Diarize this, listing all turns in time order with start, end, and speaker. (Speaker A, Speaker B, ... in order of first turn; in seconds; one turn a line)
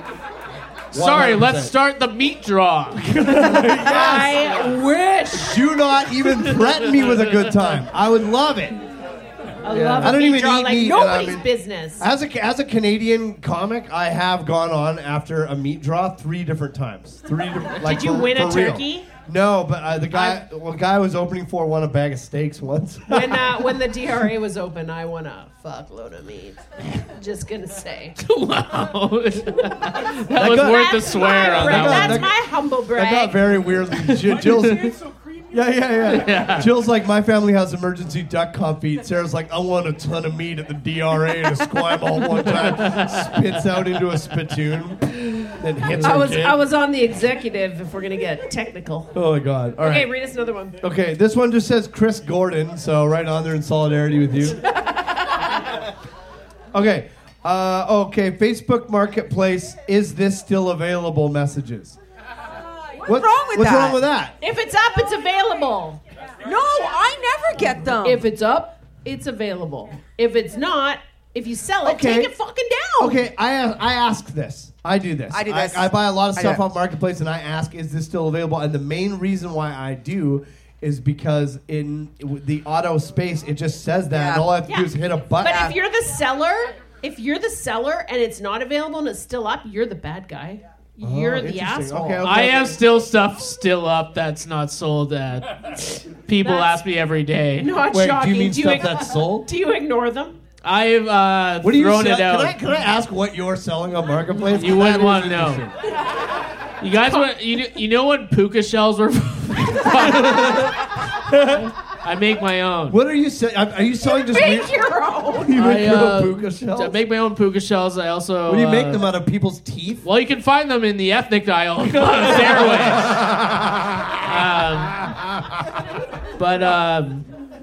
Speaker A: 0.9-1.7
Speaker B: 0.9-3.6
Speaker A: 3.1-4.4
Speaker C: 3.8-5.6
Speaker A: 5.3-8.8
Speaker B: 6.6-7.6
Speaker C: 9.6-12.0
Speaker B: 9.7-10.2
Speaker A: 10.0-11.5
Speaker A: 12.0-23.7
Speaker C: 17.8-19.1
Speaker C: 20.1-20.4
Speaker C: 23.1-28.2
Speaker B: 28.2-32.3
Speaker A: 30.3-35.0
Speaker C: 30.4-33.5
Speaker B: 33.9-34.9
Speaker A: 35.5-46.6
Speaker B: 36.0-36.7
Speaker B: 42.3-43.6
Speaker C: 46.0-49.1
Speaker A: 49.1-50.1
Speaker C: 49.8-50.8
Speaker A: 50.8-54.6
Speaker C: 54.7-55.4
Speaker A: 56.7-62.0
Speaker A: 63.0-64.4
Speaker D: 63.0-64.0
Speaker C: 64.4-66.0
Speaker D: 66.4-68.3
Speaker C: 68.0-73.2
Speaker A: 71.8-72.3
Speaker A: 73.0-85.7
Speaker D: 75.3-76.6
Speaker D: 84.1-84.5
Speaker C: 84.7-92.2
Speaker D: 85.4-85.7
Speaker A: 91.0-92.8
Speaker B: 92.2-97.8
Speaker C: 96.4-96.8
Speaker C: 97.6-100.4
Speaker A: 97.9-99.5
Speaker B: 100.6-102.6
Speaker A: 101.6-105.7
Speaker B: 104.5-105.6
Speaker B: 106.8-111.0
Speaker A: 110.0-111.7
Speaker B: 111.6-113.0
Speaker A: 112.9-114.7
Speaker C: 114.0-115.6
Speaker A: 115.4-117.0
Speaker B: 115.6-119.0
Speaker A: 118.5-120.0
Speaker B: 120.0-123.3
Speaker A: 121.9-125.6
Speaker B: 124.2-125.2
Speaker B: 126.4-127.3